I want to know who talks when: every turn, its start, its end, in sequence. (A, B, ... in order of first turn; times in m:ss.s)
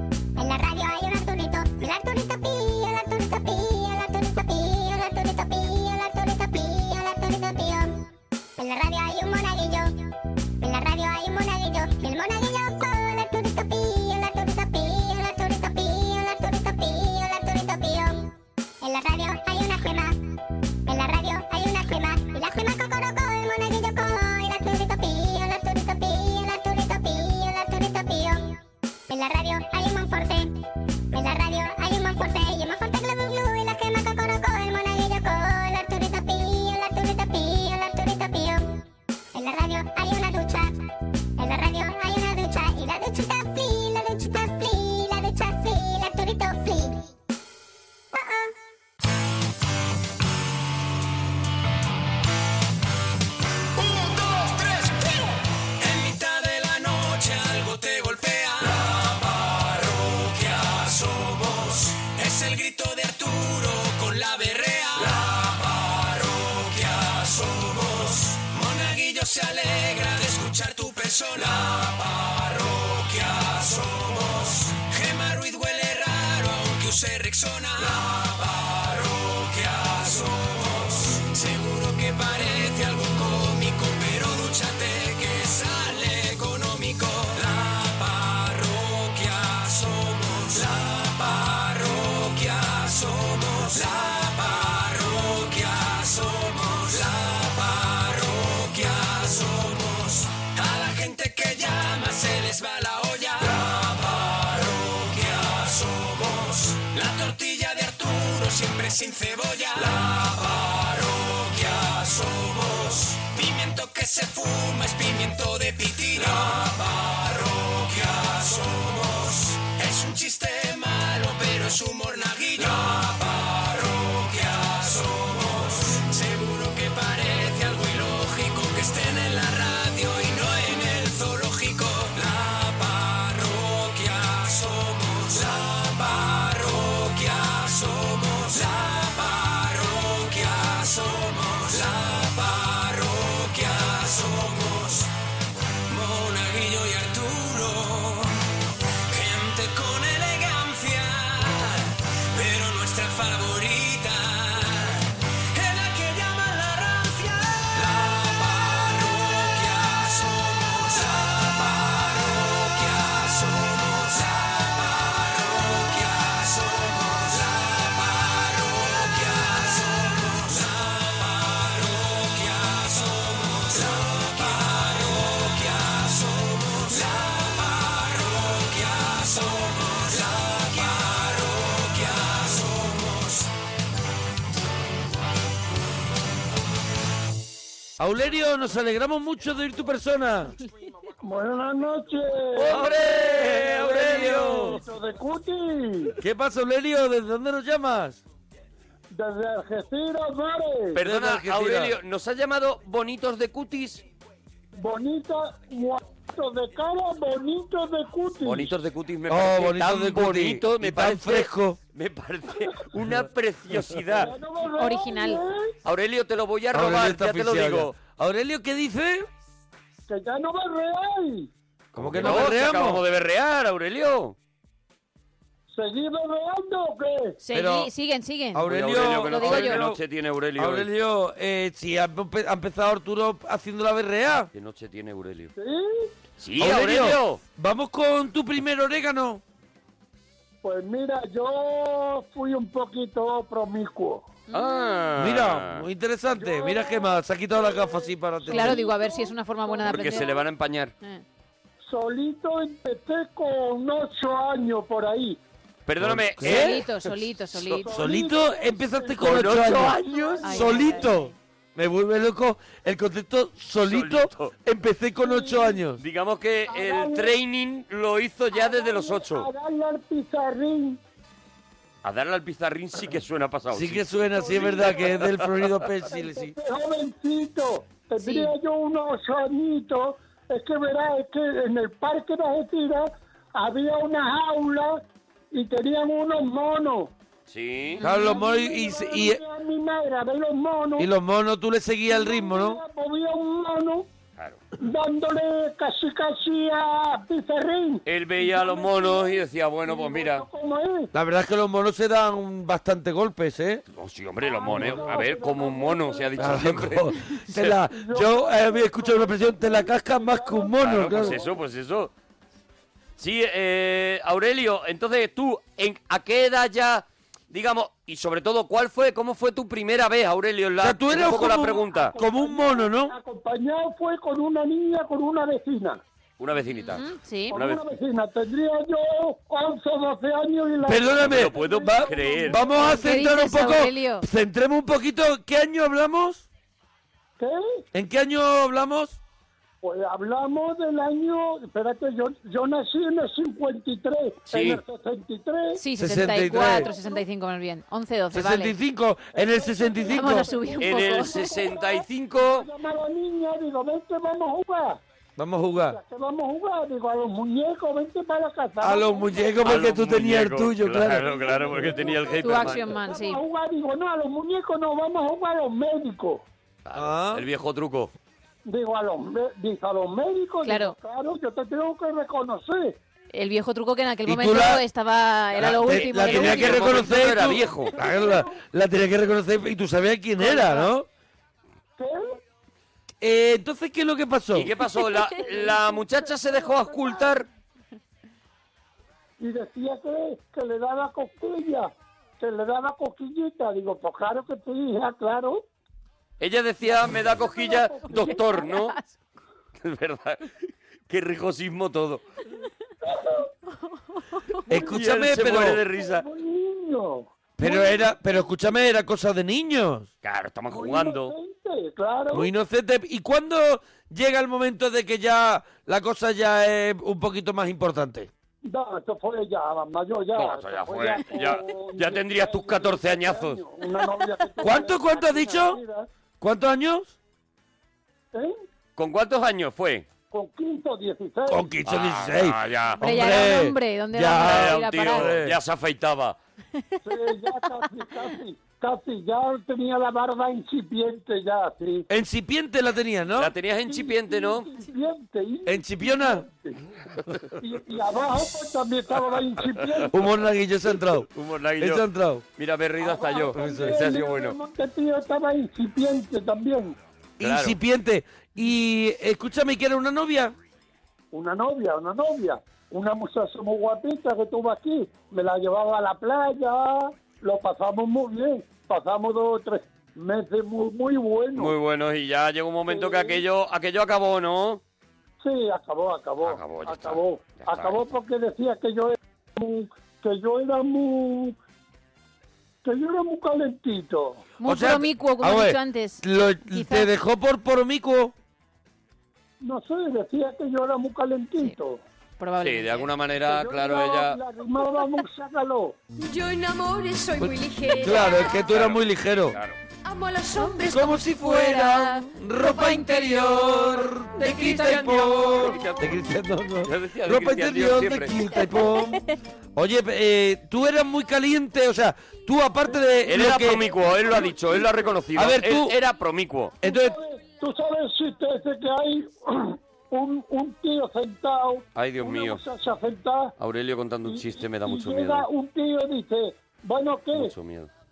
0:00.4-0:08.0 A
0:08.6-0:09.9 A
0:10.6-0:18.3 A
0:18.8-0:20.2 A
0:20.9-0:28.6 A
0:29.1-0:30.6 A
0:31.1-0:38.8 A
0:39.3-0:40.7 A
0:41.4-0:47.0 A
0:48.1-0:48.5 A
0:53.8-0:55.2 B
0:55.8-2:25.1 B
2:25.9-2:28.6 B
2:29.1-3:03.5 B
3:08.0-3:10.5 C
3:11.2-3:16.1 D
3:12.6-3:14.8 C
3:12.6-3:14.8 E
3:16.2-3:18.2 C
3:19.1-3:21.0 D
3:20.9-3:24.0 E
3:21.0-3:22.0 C
3:24.8-3:28.7 D
3:28.4-3:34.3 E
3:29.3-3:31.8 C
3:34.2-3:35.7 D
3:34.8-3:35.4 F
3:35.8-3:38.0 E
3:36.7-3:39.3 C
3:40.1-3:41.5 D
3:41.9-3:44.4 E
3:42.0-3:43.0 C
3:42.2-3:42.5 D
3:45.7-3:47.4 D
3:47.4-3:49.8 F
3:47.5-3:47.9 C
3:48.5-3:50.0 C
3:48.6-3:50.9 E
3:50.6-3:54.5 C
3:54.5-3:55.5 E
3:55.6-3:56.1 D
3:56.4-3:57.4 E
3:56.6-3:59.4 C
4:00.6-4:04.3 D
4:04.5-4:05.1 F
4:04.5-4:05.8 E
4:05.2-4:08.8 C
4:06.4-4:10.4 D
4:08.5-4:10.4 F
4:09.8-4:10.9 E
4:11.8-4:15.4 D
4:15.8-4:16.9 E
4:16.0-4:16.9 C
4:16.4-4:18.0 F
4:17.8-4:21.1 D
4:17.9-4:26.0 C
4:19.2-4:20.8 E
4:20.4-4:21.3 F
4:23.8-4:24.5 E
4:25.2-4:25.8 D
4:26.0-4:29.5 E
4:26.7-4:27.4 D
4:28.5-4:31.0 D
4:32.0-4:35.6 E
4:33.7-4:36.5 C
4:34.3-4:35.3 D
4:36.1-4:47.1 D
4:38.2-4:38.5 F
4:47.5-4:48.0 E
4:48.0-4:48.4 F
4:48.0-4:49.4 C
4:48.1-4:51.1 D
4:51.0-4:52.8 C
4:52.1-4:54.1 D
4:54.8-5:01.1 D
4:58.0-5:00.4 E
5:01.1-5:03.8 C
5:03.9-5:07.2 E
5:04.4-5:06.6 D
5:04.7-5:05.2 C
5:06.4-5:11.4 C
5:07.8-5:11.5 D
5:10.8-5:12.1 E
5:13.2-5:22.1 E
5:20.8-5:23.1 C
5:21.2-5:26.0 D
5:26.4-5:27.9 E
5:26.7-5:27.6 F
5:27.5-5:33.3 D
5:30.8-5:36.4 C
5:31.2-5:33.0 E
5:32.9-5:34.2 F
5:37.4-5:37.8 D
5:37.9-5:39.2 C
5:39.8-5:45.8 D
5:44.5-5:44.8 E
5:45.7-5:48.7 F
5:46.0-5:46.9 C
5:46.5-5:47.2 D
5:48.3-5:50.5 C
5:49.3-5:55.0 D
5:50.1-5:51.4 F
5:50.8-5:52.7 E
5:55.4-5:56.0 C
5:55.9-5:59.7 D
5:58.8-6:02.1 C
5:59.6-6:03.0 E
6:01.3-6:06.4 D
6:02.4-6:03.4 F
6:06.8-6:08.1 E
6:06.9-6:07.4 C
6:08.6-6:13.0 D
6:10.6-6:11.0 F
6:13.3-6:17.3 F
6:14.2-6:14.8 C
6:15.6-6:21.1 C
6:15.6-6:17.9 E
6:17.3-6:18.6 D
6:20.5-6:20.9 F
6:22.0-6:22.4 D
6:23.2-6:24.7 C
6:24.5-6:27.4 E
6:25.2-6:25.5 F
6:25.4-6:27.4 D
6:29.4-6:35.6 D
6:36.4-6:39.0 E
6:37.3-6:38.7 D
6:38.1-6:39.1 F
6:39.8-6:40.5 E
6:41.1-6:42.2 E
6:43.0-6:43.5 D
6:44.7-6:45.8 C
6:44.7-6:48.1 D
6:44.9-6:46.2 E
6:47.6-6:50.1 C
6:50.2-6:51.3 E
6:50.7-6:52.5 D
6:52.3-6:58.3 C
6:58.6-7:06.1 D
7:00.3-7:03.6 E
7:04.6-7:05.8 C
7:06.4-7:07.1 C
7:08.3-7:08.6 D
7:09.0-7:10.1 E
7:10.3-7:11.7 D
7:11.5-7:15.6 C
7:11.8-7:13.4 E
7:13.0-7:15.3 F
7:14.3-7:16.4 E
7:17.0-7:22.1 D
7:22.1-7:23.5 C
7:23.4-7:24.7 E
7:23.8-7:26.8 D
7:25.6-7:26.4 C
7:27.6-7:30.1 D
7:29.7-7:30.0 E
7:30.1-7:31.3 C
7:31.3-7:32.0 E
7:31.8-7:32.4 C
7:32.6-7:34.6 E
7:33.0-7:37.0 D
7:33.5-7:34.0 C
7:37.4-7:40.5 C
7:37.4-7:37.8 E
7:41.3-7:51.7 D
7:51.5-7:54.8 E
7:52.9-7:53.4 D
7:55.4-8:01.6 D
7:56.4-7:58.0 E
8:02.8-8:04.5 D
8:04.6-8:07.1 F
8:04.6-8:08.3 C
8:09.6-8:12.0 D
8:12.4-8:13.1 F
8:12.6-8:14.4 E
8:13.4-8:16.0 D
8:16.2-8:18.7 G
8:17.4-8:19.6 C
8:18.6-8:19.8 E
8:20.0-8:21.2 G
8:20.8-8:33.9 C
8:21.4-8:25.7 F
8:25.5-8:26.2 E
8:26.8-8:28.3 E
8:28.8-8:29.3 F
8:33.2-8:36.8 E
8:33.9-8:34.8 D
8:35.3-8:35.9 C
8:36.8-8:37.2 C
8:36.8-8:43.5 D
8:42.0-8:42.6 E
8:43.6-8:45.5 E
8:44.2-8:47.5 D
8:47.3-8:47.9 E